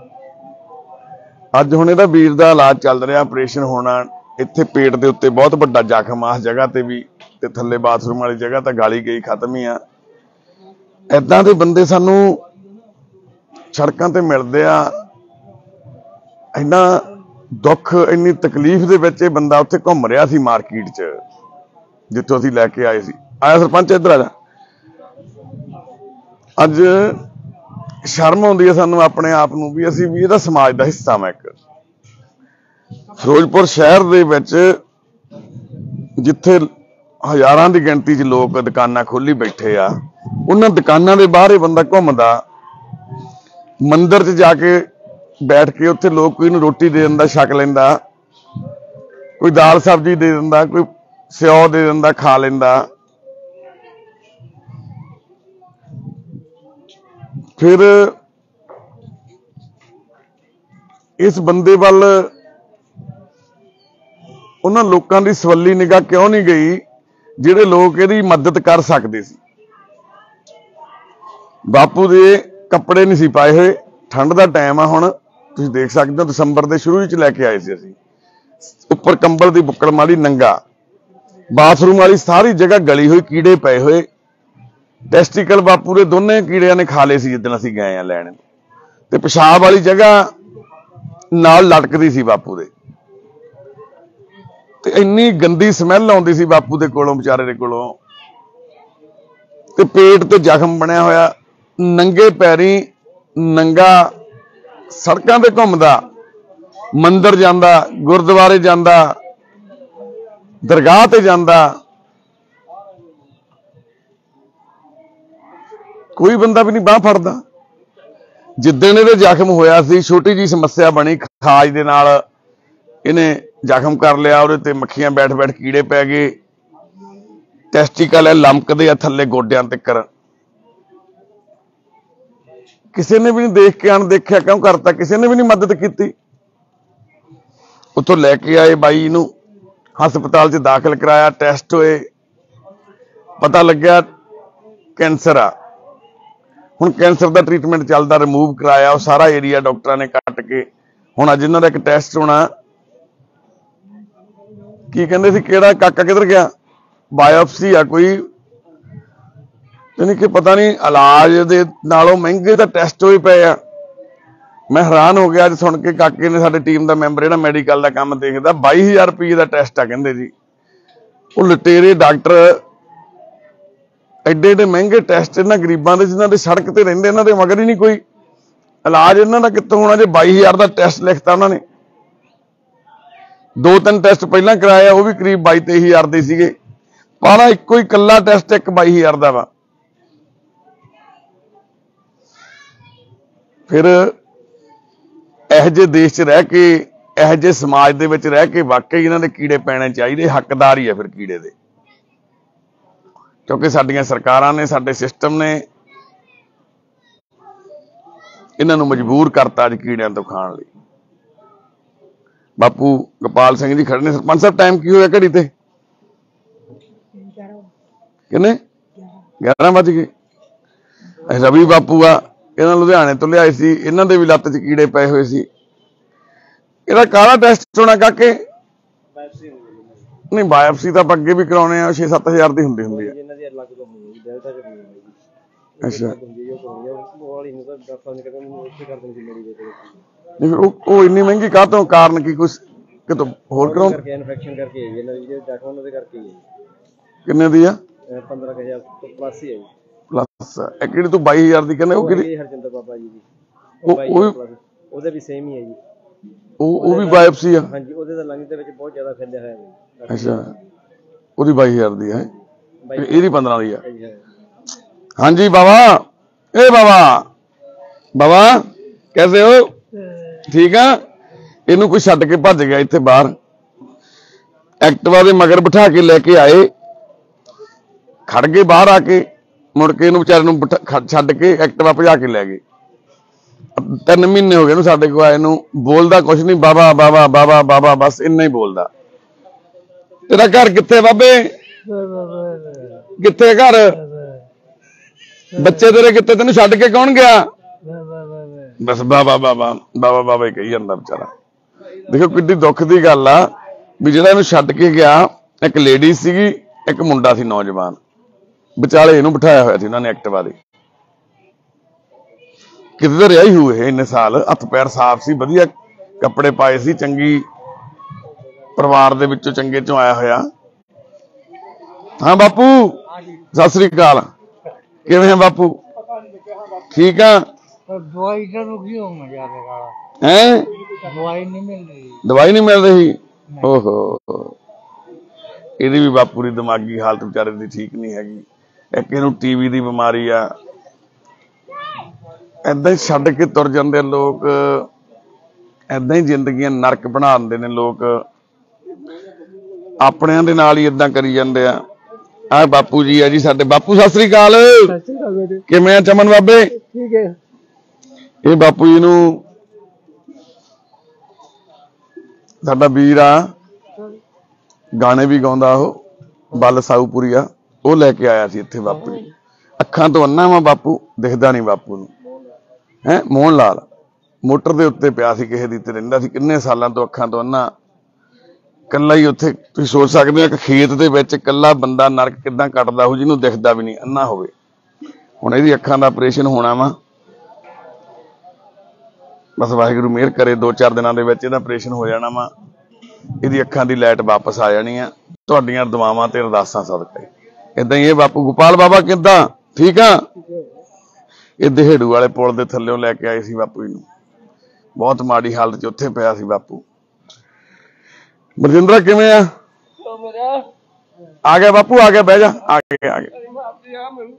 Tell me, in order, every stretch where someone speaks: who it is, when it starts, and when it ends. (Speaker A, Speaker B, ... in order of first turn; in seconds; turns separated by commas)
Speaker A: 1.6-9.8, Speaker A: 11.1-12.4, Speaker A: 13.7-14.9, Speaker A: 16.6-17.0, Speaker A: 17.6-21.2, Speaker A: 22.1-24.3, Speaker A: 26.6-27.2, Speaker A: 28.1-31.6, Speaker A: 33.2-34.7, Speaker A: 36.2-36.7, Speaker A: 37.2-39.9, Speaker A: 40.5-42.4, Speaker A: 43.9-44.8, Speaker A: 45.5-48.0, Speaker A: 49.4-52.9, Speaker A: 57.6-58.1, Speaker A: 61.2-62.3, Speaker A: 64.6-66.8, Speaker A: 67.4-69.4, Speaker A: 71.7-78.0, Speaker A: 78.8-80.6, Speaker A: 81.5-84.1, Speaker A: 85.1-88.4, Speaker A: 89.1-90.2, Speaker A: 91.3-92.7, Speaker A: 94.8-97.9, Speaker A: 99.8-102.9, Speaker A: 103.4-104.1, Speaker A: 104.9-106.0, Speaker A: 107.0-109.2, Speaker A: 110.7-111.8, Speaker A: 116.2-117.4, Speaker A: 118.6-122.2, Speaker A: 123.0-126.3, Speaker A: 127.7-130.1, Speaker A: 132.9-136.1, Speaker A: 138.0-139.3, Speaker A: 140.0-142.1, Speaker A: 143.4-144.1, Speaker A: 145.0-145.5, Speaker A: 146.8-150.7, Speaker A: 151.2-152.5, Speaker A: 154.9-156.5, Speaker A: 157.2-158.2, Speaker A: 160.0-163.6, Speaker A: 164.7-170.3, Speaker A: 171.4-172.6, Speaker A: 174.3-178.0, Speaker A: 178.8-181.6, Speaker A: 183.6-186.5, Speaker A: 187.2-189.5, Speaker A: 193.7-194.1, Speaker A: 195.5-201.5, Speaker A: 203.5-205.6, Speaker A: 208.6-210.7, Speaker A: 212.6-215.5, Speaker A: 218.3-218.6, Speaker A: 219.4-220.1, Speaker A: 221.3-225.5, Speaker A: 226.9-228.4, Speaker B: 229.2-230.0, Speaker A: 230.3-233.1, Speaker B: 232.8-235.2, Speaker B: 235.8-240.0, Speaker A: 235.8-236.1, Speaker A: 240.4-244.0, Speaker B: 243.6-246.4, Speaker A: 247.3-247.8, Speaker B: 248.1-249.7, Speaker A: 250.1-252.3, Speaker B: 251.9-253.2, Speaker B: 253.8-255.8, Speaker A: 253.9-254.3, Speaker A: 256.6-257.7, Speaker B: 256.8-260.5, Speaker A: 260.1-260.5, Speaker A: 261.4-262.3, Speaker B: 262.9-264.2, Speaker A: 263.0-263.8, Speaker A: 265.2-266.0, Speaker A: 266.6-267.3, Speaker A: 268.2-268.6, Speaker A: 269.1-269.7, Speaker A: 270.5-270.9, Speaker A: 271.7-273.3, Speaker A: 274.8-276.7, Speaker A: 278.3-279.2, Speaker A: 279.8-282.6, Speaker A: 283.8-288.9, Speaker A: 290.3-291.4, Speaker C: 291.9-293.0, Speaker A: 293.2-294.0, Speaker C: 294.0-294.4, Speaker C: 295.6-295.9, Speaker A: 295.6-297.4, Speaker C: 297.8-298.8, Speaker A: 298.8-301.3, Speaker A: 302.1-303.5, Speaker A: 304.0-308.0, Speaker A: 308.8-310.6, Speaker A: 313.0-317.4, Speaker A: 318.8-320.4, Speaker A: 322.2-323.0, Speaker A: 323.5-324.3, Speaker A: 325.1-325.8, Speaker A: 326.9-327.4, Speaker C: 327.9-329.8, Speaker A: 330.2-330.7, Speaker C: 331.0-332.1, Speaker A: 332.2-334.6, Speaker A: 335.8-340.5, Speaker A: 342.7-344.9, Speaker A: 345.9-348.2, Speaker A: 350.0-351.8, Speaker A: 352.5-354.9, Speaker C: 354.9-355.6, Speaker A: 355.7-356.7, Speaker C: 356.7-357.4, Speaker A: 358.4-359.4, Speaker A: 362.6-363.5, Speaker A: 365.0-366.0, Speaker A: 366.5-369.2, Speaker A: 369.8-372.1, Speaker A: 373.1-373.9, Speaker A: 374.4-377.7, Speaker A: 378.9-384.5, Speaker A: 385.4-386.9, Speaker A: 389.6-392.5, Speaker A: 393.4-400.2, Speaker A: 401.6-404.0, Speaker A: 405.0-406.8, Speaker A: 408.6-409.5, Speaker A: 411.5-413.3